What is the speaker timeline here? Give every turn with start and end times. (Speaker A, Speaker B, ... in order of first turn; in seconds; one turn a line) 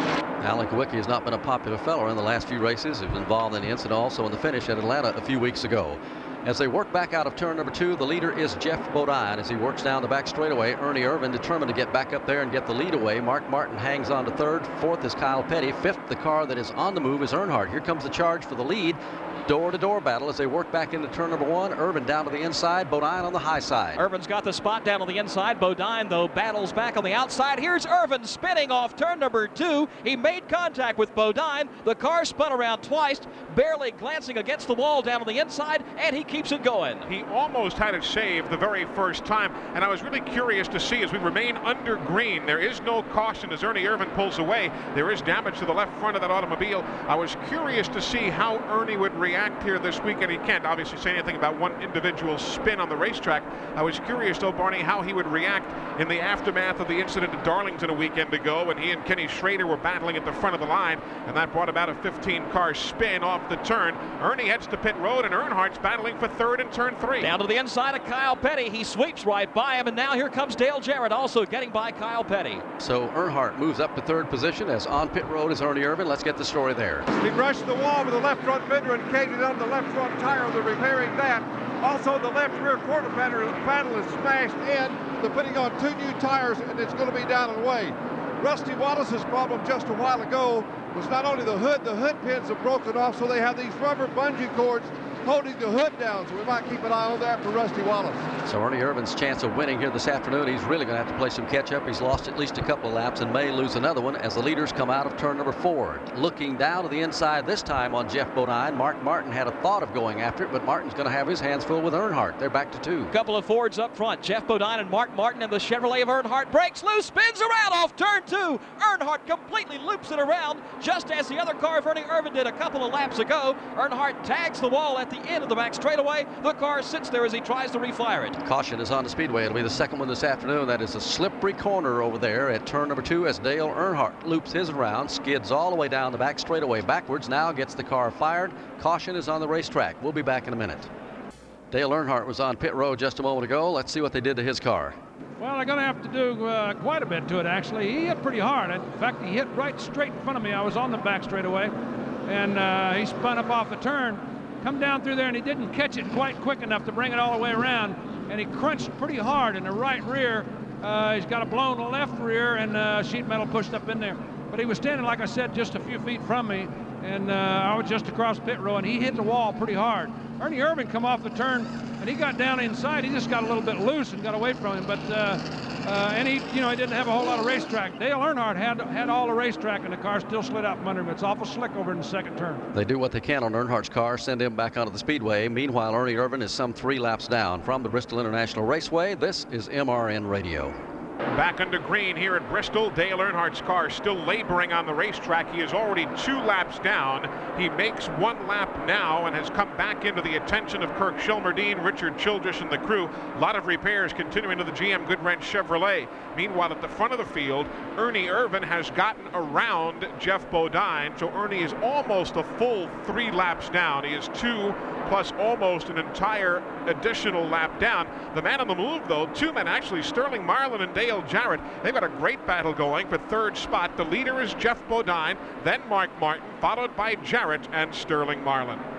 Speaker A: 0.4-24.0
Speaker B: 23.9-37.0
Speaker C: 37.0-67.3
Speaker B: 67.2-72.6
Speaker A: 72.8-77.0
Speaker D: 77.1-98.2
Speaker A: 98.4-113.1
Speaker B: 113.1-128.4
Speaker A: 128.4-140.9
Speaker A: 141.7-145.0
Speaker E: 145.4-151.7
Speaker E: 152.2-182.6
Speaker A: 182.7-190.7
Speaker C: 191.3-228.8